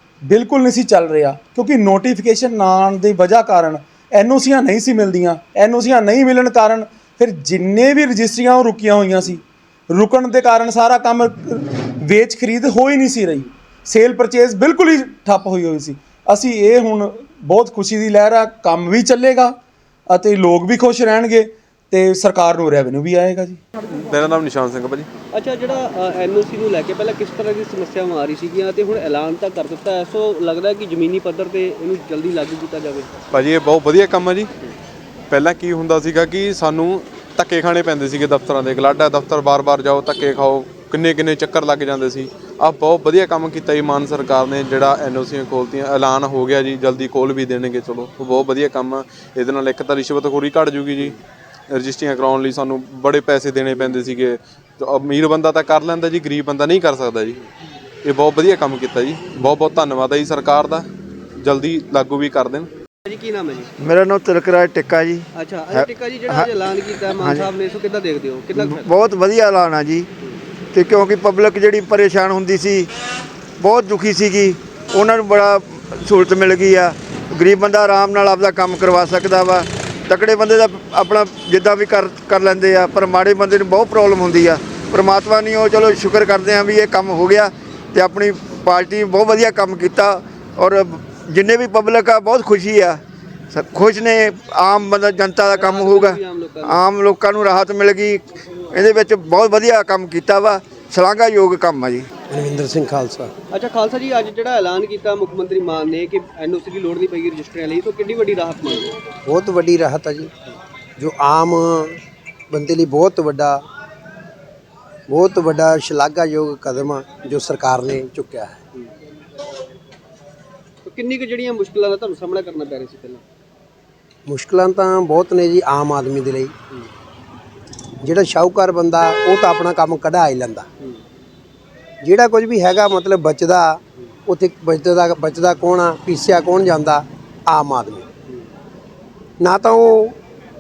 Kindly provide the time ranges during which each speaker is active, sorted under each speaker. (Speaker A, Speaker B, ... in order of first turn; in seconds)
Speaker A: 0.3-19.6, 20.1-23.6
Speaker B: 23.9-25.1, 33.3-34.5, 35.3-51.1, 51.7-57.4, 58.0-60.9, 61.4-62.7
Speaker C: 25.3-33.1, 63.1-63.7, 65.3-68.9, 95.5-96.8, 103.5-108.9, 120.8-123.2
Speaker D: 63.8-66.5, 67.1-67.5, 68.5-70.1, 70.7-72.9, 73.6-93.0, 93.5-102.1
Speaker E: 102.3-103.3, 109.3-110.3, 111.0-112.0, 112.5-113.6, 115.1-118.6, 124.3-126.5, 128.0-130.7, 132.0-138.1, 139.4-140.2